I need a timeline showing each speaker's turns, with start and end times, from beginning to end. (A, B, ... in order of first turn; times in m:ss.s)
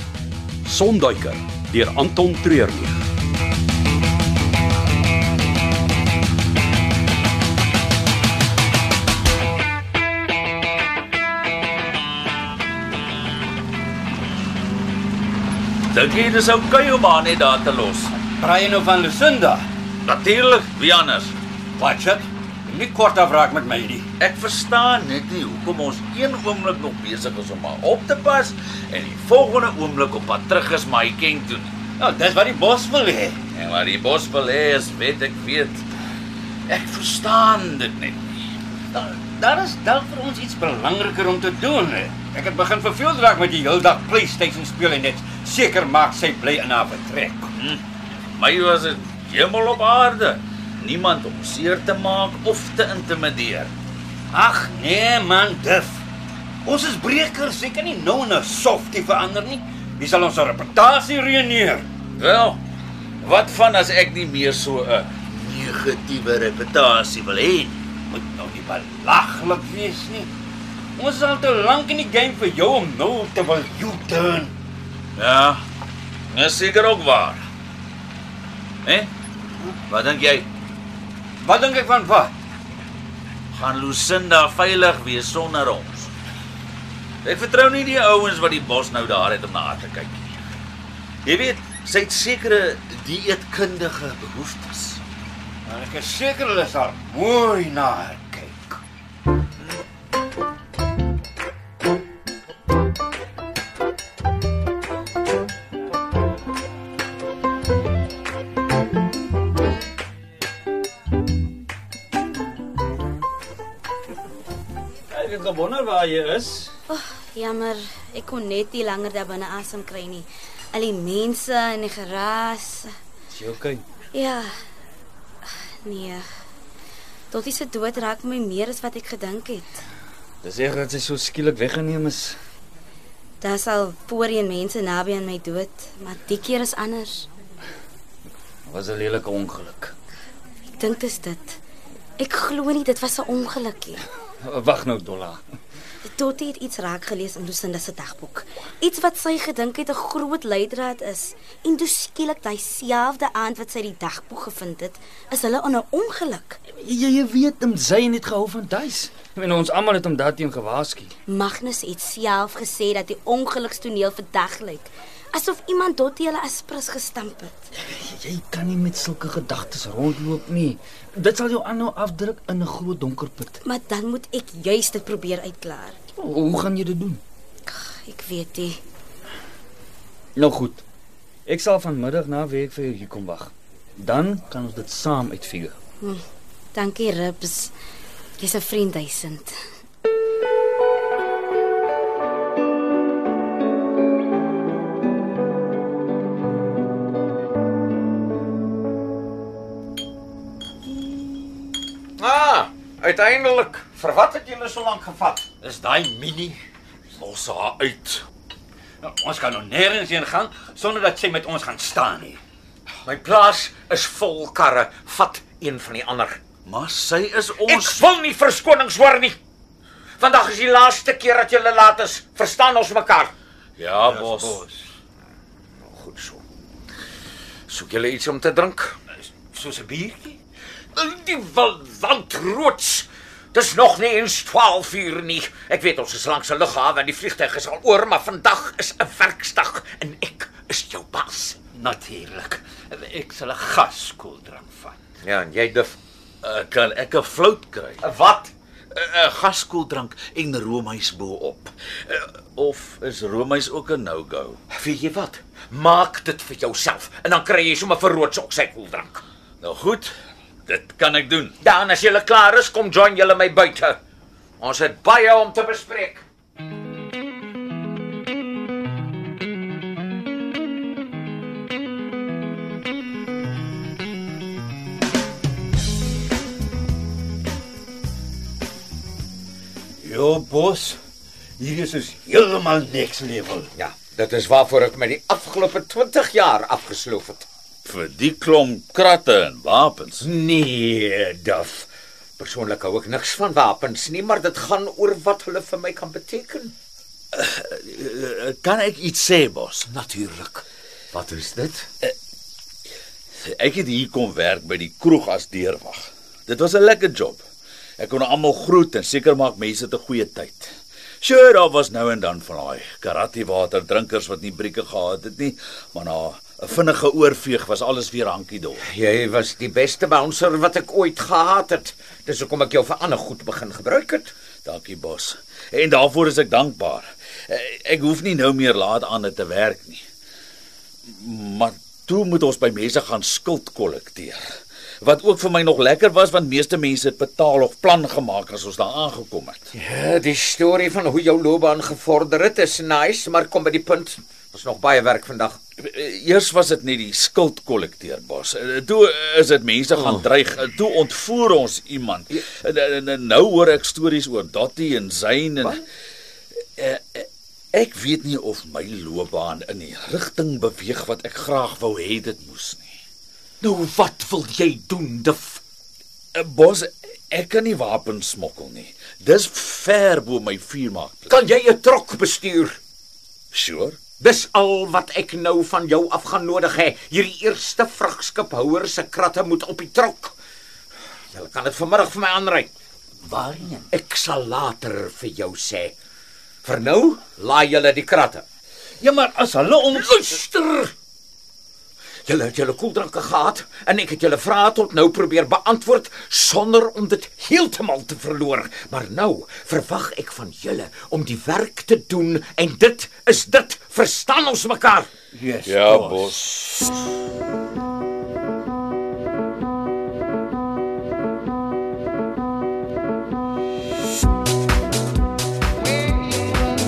0:00.6-0:03.0 A
0:15.9-0:18.1 B
0:18.3-0:19.6 C
0:20.0-0:21.4 B
0:21.8-0:24.1 C
0:24.2-0:31.7 B
0:32.0-0:33.4 C
0:33.5-0:35.9 B
0:36.7-0:38.5 B
0:38.9-0:47.5 C
0:47.6-0:53.7 B
0:54.3-0:56.1 C
0:56.6-1:01.9 C
1:02.2-1:02.6 B
1:03.2-1:07.9 B
1:08.1-1:10.3 C
1:11.0-1:14.5 C
1:15.2-1:15.6 B
1:16.3-1:17.4 B
1:18.8-1:19.1 B
1:19.9-1:20.5 B
1:21.4-1:22.3 C
1:23.5-1:26.1 B
1:27.2-1:30.3 B
1:31.2-1:35.0 B
1:35.6-1:38.8 C
1:55.1-1:56.7 D
1:56.9-2:02.9 E
2:03.3-2:03.8 D
2:04.1-2:04.6 E
2:05.4-2:06.2 E
2:07.3-2:09.8 E
2:10.4-2:12.4 D
2:13.4-2:17.3 E
2:18.7-2:19.9 D
2:20.8-2:21.6 E
2:22.2-2:24.0 E
2:24.4-2:25.4 D
2:26.0-2:36.6 E
2:36.7-2:41.1 D
2:41.3-2:47.6 E
2:47.8-2:53.6 D
2:53.6-2:56.0 E
2:56.2-2:57.2 D
2:57.7-2:58.8 E
3:00.4-3:00.8 D
3:01.5-3:05.8 D
3:06.7-3:07.7 E
3:08.4-3:09.6 E
3:22.2-3:25.5 F
3:25.6-3:26.6 C
3:27.2-3:28.2 B
3:29.0-3:32.4 C
3:33.0-3:36.4 F
3:36.7-3:38.0 B
3:37.6-3:39.4 F
3:40.2-3:43.3 F
3:43.8-3:44.6 B
3:44.0-3:44.9 C
3:45.8-3:46.4 F
3:47.7-3:49.0 F
3:49.4-3:50.4 C
3:51.0-4:01.6 F
4:01.8-4:05.0 C
4:05.2-4:06.0 F
4:06.4-4:08.0 B
4:08.0-4:08.5 F
4:08.9-4:14.6 B
4:14.7-4:19.2 F
4:19.6-4:20.1 B
4:20.7-4:21.6 B
4:21.6-4:24.0 F
4:24.6-4:26.2 F
4:40.0-4:41.0 C
4:41.6-4:43.7 C
4:43.8-4:47.5 F
4:47.8-4:50.3 B
4:50.2-4:51.9 F
4:52.4-4:56.7 F
4:57.3-4:59.9 B
4:59.8-5:01.9 F
5:03.4-5:07.4 B
5:08.0-5:18.8 B
5:18.9-5:24.3 F
5:24.6-5:30.0 B
5:31.1-5:34.4 B
5:35.0-5:39.7 B
5:39.8-5:45.6 F
5:45.8-5:55.8 B
5:56.6-6:02.9 B
6:03.6-6:05.6 F
6:06.4-6:11.4 B
6:11.3-6:12.8 F
6:13.5-6:14.0 B
6:14.2-6:20.3 F
6:21.3-6:22.7 F
6:23.2-6:23.9 C
6:23.9-6:25.9 F
6:26.6-6:28.4 F
6:29.0-6:30.2 C
6:29.9-6:30.9 F
6:32.3-6:45.1 F
6:45.3-6:46.4 C
6:45.6-6:47.0 B